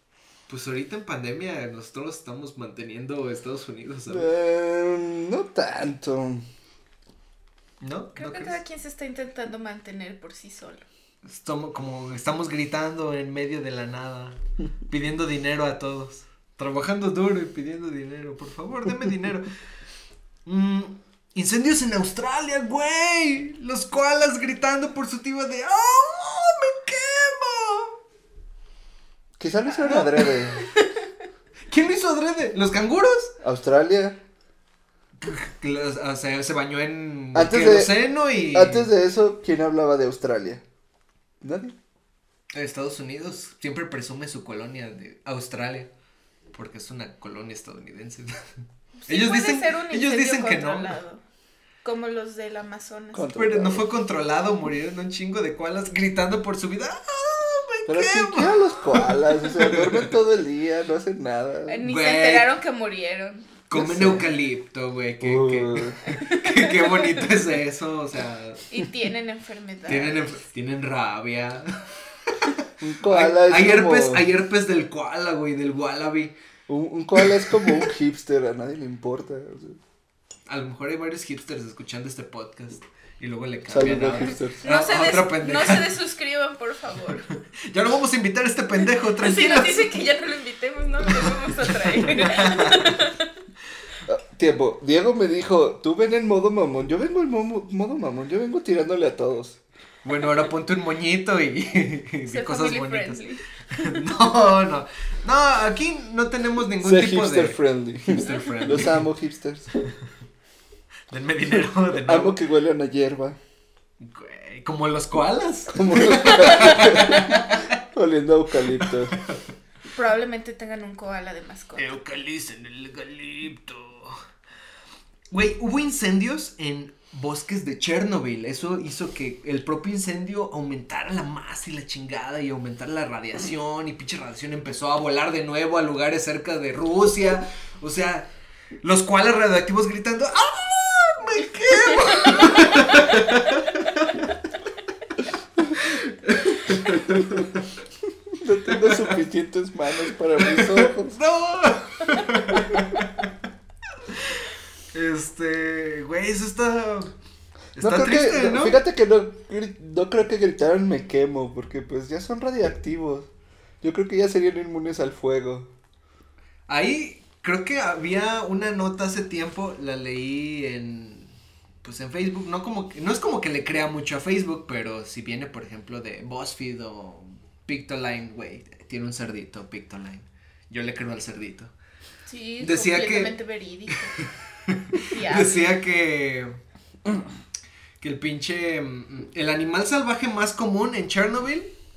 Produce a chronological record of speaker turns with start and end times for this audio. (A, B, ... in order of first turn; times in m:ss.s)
0:00.5-0:04.3 A
0:04.1-0:06.4 B
0:07.8-0:08.6 A
0:08.2-0:10.8 C
0:11.2-0:19.5 A
0:20.5-0:28.0 A
0:29.4-0:30.7 B
0:29.8-0:30.6 A
0:31.7-0:33.3 A
0:33.4-0:34.2 B
0:35.2-0:38.9 A
0:37.3-0:38.0 B
0:38.5-0:40.6 B
0:41.4-0:41.8 B
0:42.5-0:45.9 A
0:46.5-0:48.5 A
0:49.0-0:51.2 C
0:49.1-0:51.0 A
0:51.8-0:53.3 C
0:53.1-0:53.9 B
0:53.3-1:00.1 A
0:57.9-1:01.8 B
1:01.7-1:03.5 C
1:01.8-1:02.5 A
1:03.7-1:08.6 A
1:03.7-1:04.3 B
1:05.2-1:06.0 B
1:06.1-1:07.3 C
1:08.7-1:10.4 C
1:09.9-1:16.4 A
1:12.8-1:14.2 B
1:16.7-1:19.8 B
1:17.2-1:17.9 A
1:20.5-1:26.0 A
1:23.7-1:24.7 B
1:24.6-1:27.2 C
1:27.2-1:30.0 A
1:29.0-1:33.3 C
1:31.7-1:33.0 A
1:34.1-1:39.6 B
1:40.0-1:49.1 A
1:42.3-1:44.0 C
1:46.8-1:49.7 B
1:51.1-1:52.4 A
1:52.0-1:53.4 B
1:54.0-1:57.7 A
1:55.7-1:59.2 B
1:56.8-1:57.4 C
1:58.8-1:59.4 A
1:59.9-2:01.9 C
2:01.8-2:04.2 A
2:05.3-2:18.3 A
2:18.8-2:24.3 A
2:22.3-2:23.1 C
2:25.8-2:27.6 A
2:26.7-2:27.4 B
2:28.3-2:31.2 B
2:28.7-2:29.2 A
2:30.4-2:33.3 A
2:34.1-2:37.1 A
2:37.8-2:38.8 A
2:37.8-2:43.3 B
2:43.8-2:45.7 B
2:46.7-2:51.3 A
2:51.8-3:01.7 A
3:02.3-3:04.2 C
3:02.6-3:03.4 A
3:03.9-3:06.6 A
3:05.0-3:05.8 C
3:08.0-3:11.7 A